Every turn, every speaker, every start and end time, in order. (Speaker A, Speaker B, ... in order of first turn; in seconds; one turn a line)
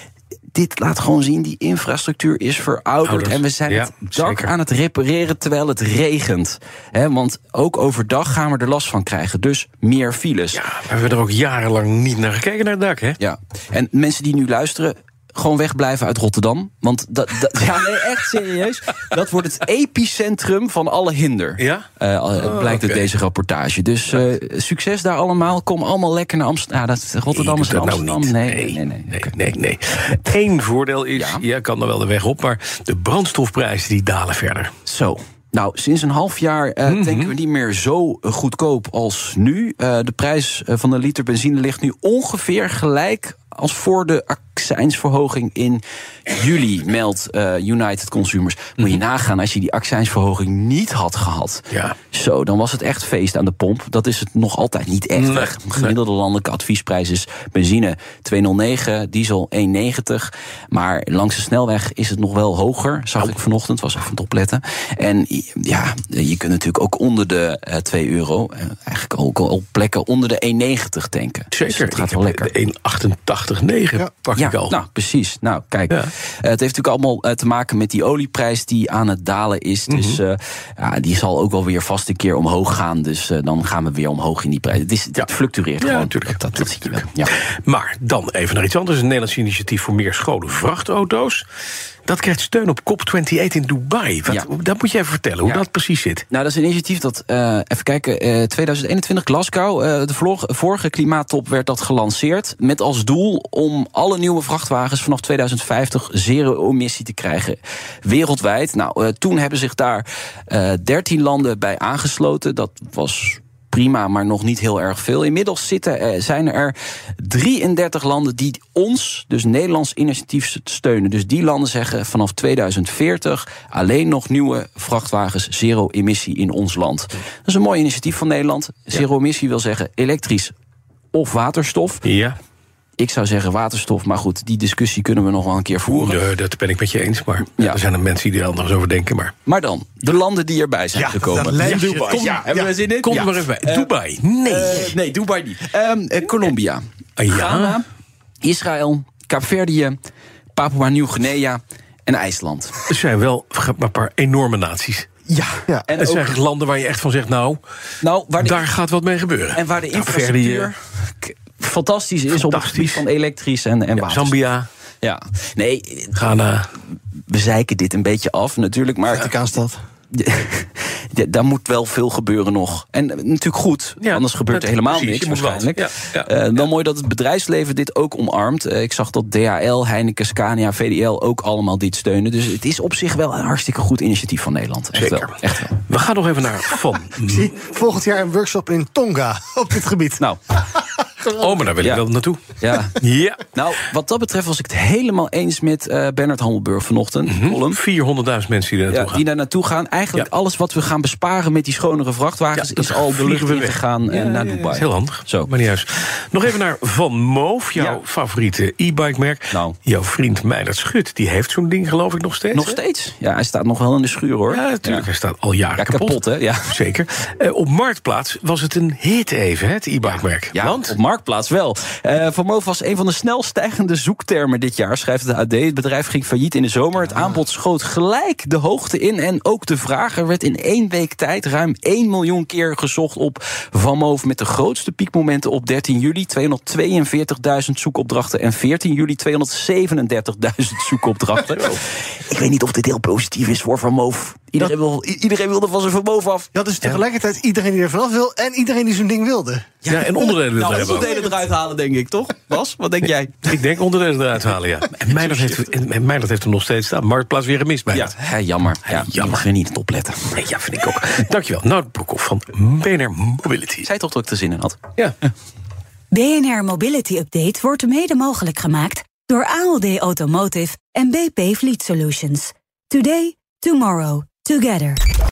Speaker A: 0.5-10.6
Speaker B: 3.0-4.5
Speaker B: 10.5-13.2
Speaker A: 13.2-29.3
Speaker B: 21.6-21.9
Speaker B: 22.4-23.1
Speaker B: 27.3-34.7
Speaker A: 31.1-31.4
Speaker A: 34.9-72.5
Speaker B: 36.9-37.3
Speaker B: 51.7-52.0
Speaker B: 55.2-56.0
Speaker B: 71.5-74.8
Speaker A: 74.4-87.3
Speaker B: 79.9-80.2
Speaker B: 85.8-91.5
Speaker B: 92.1-96.2
Speaker A: 96.3-130.5
Speaker A: 131.1-132.0
Speaker B: 132.0-132.4
Speaker A: 133.0-136.2
Speaker B: 135.9-139.3
Speaker A: 139.5-143.9
Speaker C: 140.9-142.7
Speaker B: 141.6-145.0
Speaker A: 144.4-147.9
Speaker B: 147.2-147.8
Speaker A: 148.4-150.0
Speaker A: 150.6-152.8
Speaker B: 152.9-155.1
Speaker A: 155.3-156.4
Speaker B: 156.0-157.6
Speaker A: 158.0-158.7
Speaker B: 158.4-160.7
Speaker A: 159.5-164.4
Speaker B: 162.3-163.1
Speaker B: 164.0-164.7
Speaker A: 165.0-166.1
Speaker B: 166.1-166.7
Speaker A: 167.3-169.3
Speaker C: 169.2-169.8
Speaker A: 170.1-185.8
Speaker B: 174.0-176.7
Speaker B: 184.9-187.5
Speaker C: 187.2-191.5
Speaker B: 191.3-193.4
Speaker A: 191.8-192.1
Speaker A: 192.6-192.9
Speaker A: 193.5-197.8
Speaker B: 197.3-199.2
Speaker A: 198.9-205.5
Speaker B: 202.5-212.8
Speaker A: 207.8-208.0
Speaker A: 209.5-209.8
Speaker A: 212.5-215.1
Speaker B: 214.5-221.0
Speaker A: 215.8-216.7
Speaker A: 220.0-246.5
Speaker B: 227.0-227.4
Speaker C: 246.5-249.7
Speaker A: 249.8-253.5
Speaker B: 249.9-251.2
Speaker B: 253.4-258.1
Speaker A: 254.9-255.7
Speaker A: 257.9-260.2
Speaker B: 258.9-259.4
Speaker B: 260.3-263.9
Speaker A: 263.8-264.8
Speaker D: 266.1-275.0